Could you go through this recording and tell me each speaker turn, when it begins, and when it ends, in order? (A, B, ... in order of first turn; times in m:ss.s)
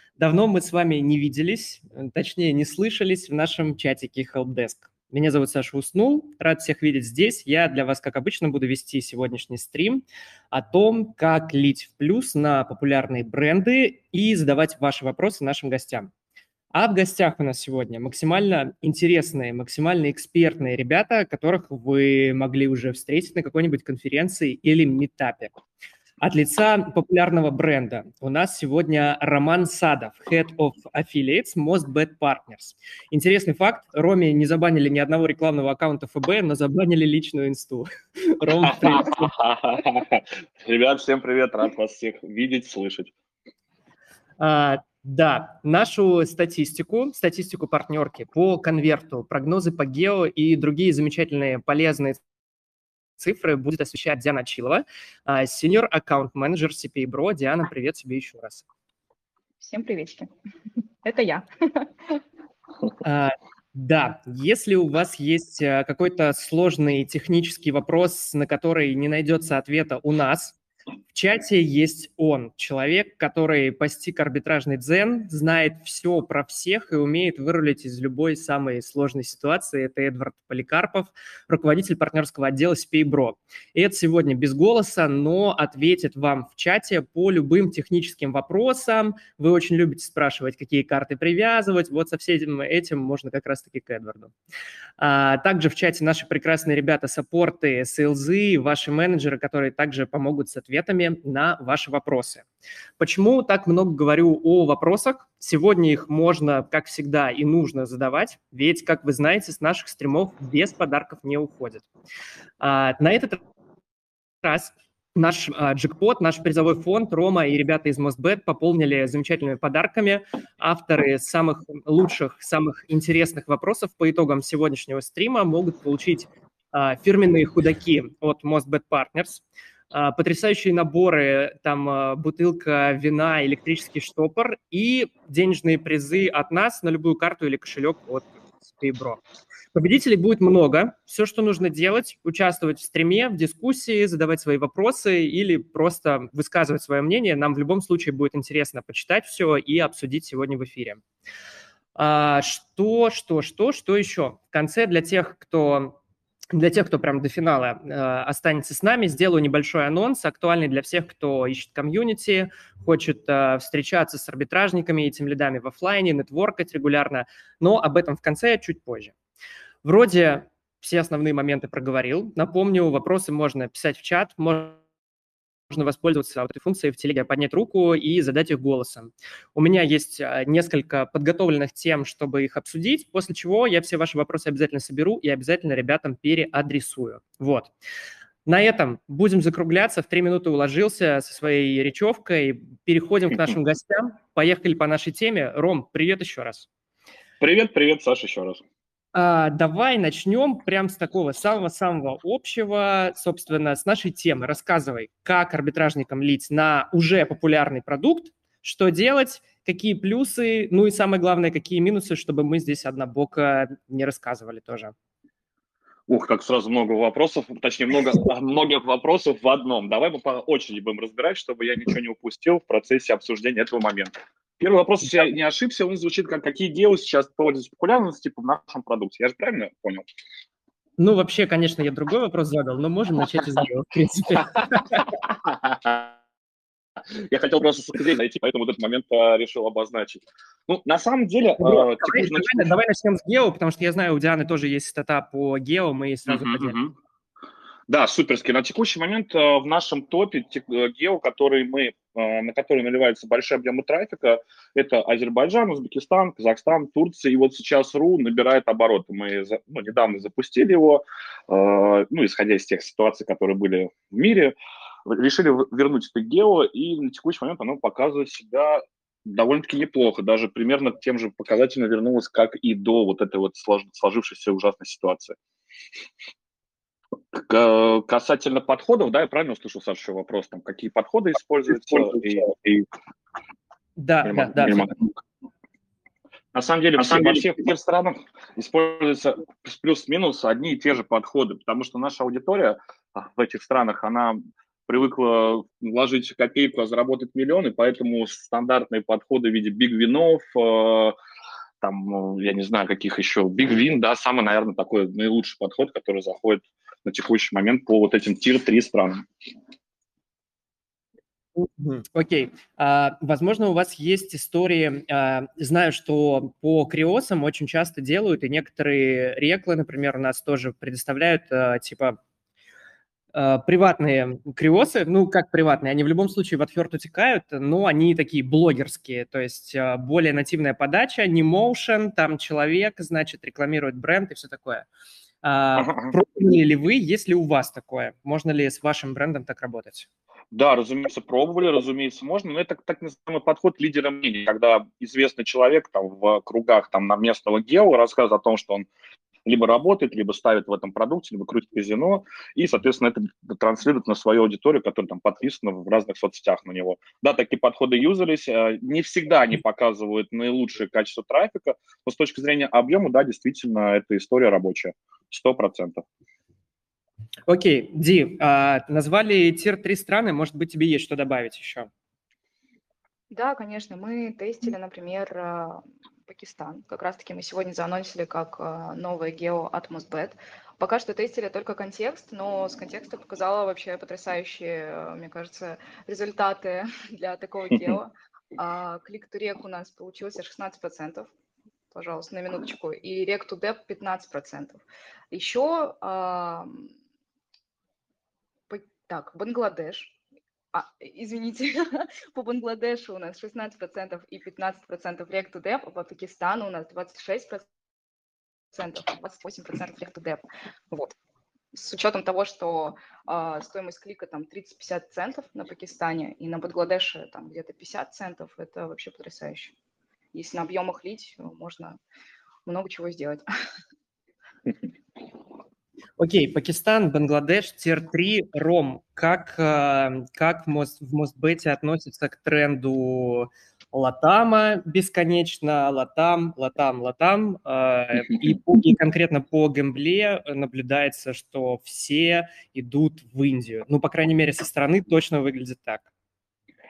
0:00.2-0:16.1 A
0:16.7-0:25.6 A
0:26.2-0:39.3 A
0:38.6-0:43.1 B
0:44.4-0:52.2 A
0:53.2-0:58.7 A
0:59.6-1:00.3 C
1:01.0-1:02.2 C
1:03.0-1:10.6 A
1:11.1-1:34.3 A
1:35.0-1:42.4 A
1:43.0-1:51.9 A
1:52.6-1:53.4 A
1:54.4-2:19.2 A
2:19.7-2:31.0 A
2:32.0-2:36.0 A
2:36.5-2:49.1 A
2:49.8-2:54.8 A
2:55.7-3:07.7 A
3:08.4-3:16.7 A
3:17.4-3:18.6 B
3:19.1-3:34.9 A
3:36.1-3:50.1 B
3:51.0-3:55.0 A
3:54.9-3:56.1 B
3:57.1-4:02.7 B
4:01.6-4:06.8 A
4:06.3-4:06.9 B
4:07.9-4:35.4 B
4:37.3-4:42.6 B
4:44.0-4:44.9 A
4:44.2-4:45.0 B
4:46.5-5:01.1 B
5:01.8-5:09.2 B
5:11.6-5:22.2 A
5:23.3-5:34.9 A
5:35.4-5:40.1 A
5:35.8-5:36.1 B
5:40.5-5:48.9 B
5:49.4-6:06.0 B
6:07.5-6:11.9 A
6:13.3-6:31.3 C
6:31.9-6:36.9 C
6:38.7-6:40.2 C
6:40.7-6:47.7 C
6:48.7-6:51.1 C
6:51.7-6:59.7 C
7:00.3-7:02.0 C
7:02.6-7:03.4 C
7:06.2-7:26.1 A